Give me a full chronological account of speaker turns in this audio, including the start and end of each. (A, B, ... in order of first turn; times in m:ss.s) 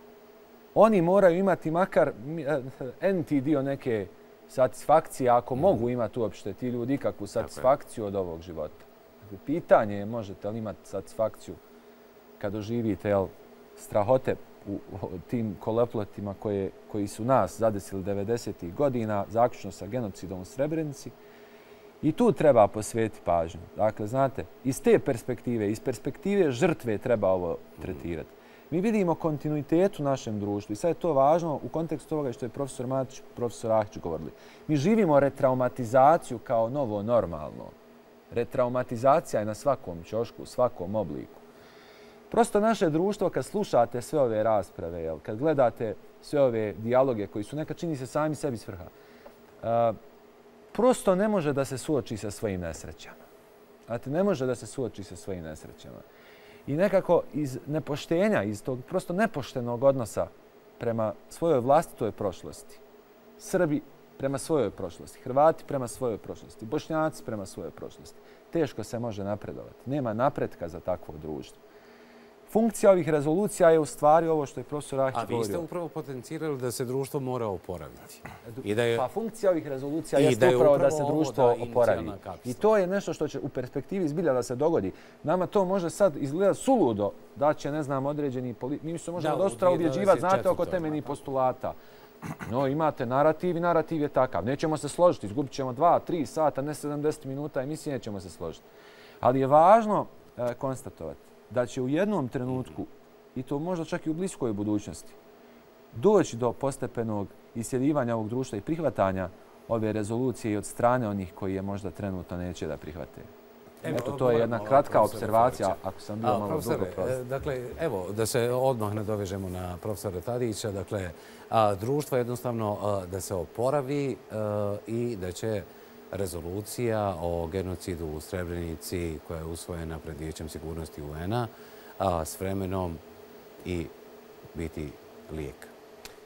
0:00.8-0:11.6 A
0:05.6-0:05.8 B
0:07.4-0:07.7 B
0:12.4-0:21.2 A
0:22.0-0:37.8 A
0:38.3-0:41.4 A
0:42.3-0:48.9 A
0:49.6-0:50.0 A
0:50.7-0:53.2 A
0:53.9-0:56.0 A
0:56.7-1:02.8 A
1:03.4-1:11.6 A
1:12.5-1:15.6 A
1:15.1-1:19.1 B
1:18.5-1:31.8 A
1:20.2-1:22.6 B
1:29.2-1:31.1 B
1:32.4-1:38.6 A
1:39.2-1:45.2 A
1:45.9-1:53.3 A
1:53.8-2:13.0 B
1:53.9-1:57.2 A
2:13.6-2:13.9 B
2:14.5-2:15.7 B